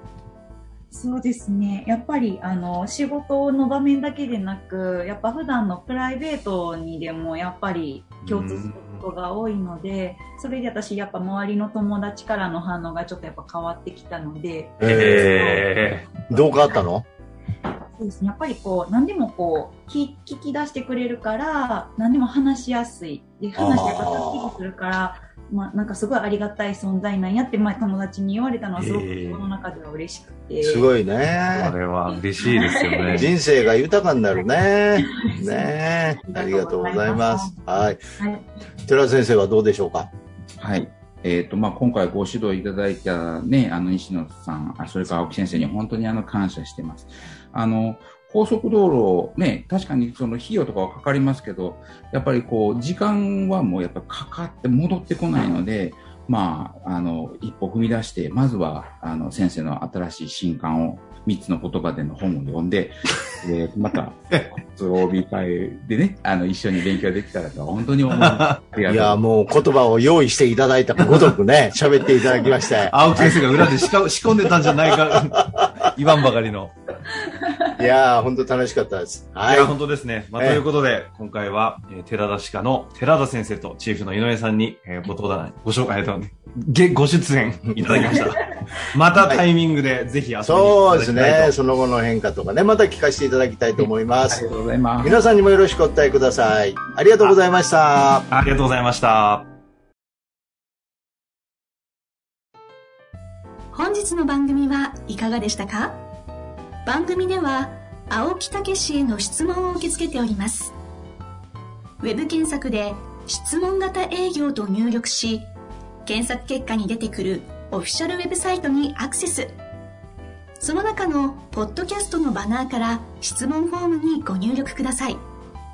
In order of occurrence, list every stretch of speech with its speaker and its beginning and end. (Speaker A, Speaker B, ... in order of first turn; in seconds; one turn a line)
Speaker A: 0.9-15.5
Speaker B: 8.2-9.0
Speaker C: 14.8-15.6
Speaker B: 14.8-16.2
Speaker C: 16.3-17.1
Speaker A: 17.9-30.9
Speaker C: 23.6-24.5
Speaker B: 28.8-29.4
Speaker C: 30.6-31.7
Speaker B: 31.5-33.3
Speaker A: 32.4-33.3
Speaker C: 33.1-38.0
Speaker A: 35.0-35.7
Speaker A: 36.2-38.4
Speaker C: 38.8-40.1
Speaker D: 40.6-69.2
Speaker B: 68.2-68.5
Speaker C: 68.9-73.9
Speaker B: 72.7-76.7
Speaker C: 74.9-75.7
Speaker C: 77.7-79.7
Speaker B: 79.5-91.5
Speaker C: 87.7-88.2
Speaker C: 90.4-94.4
Speaker D: 93.8-95.2
Speaker C: 95.0-98.2
Speaker B: 98.3-99.5
Speaker E: 103.7-106.0
Speaker E: 106.8-110.7
Speaker E: 112.0-115.5
Speaker E: 116.0-119.6
Speaker E: 120.6-125.2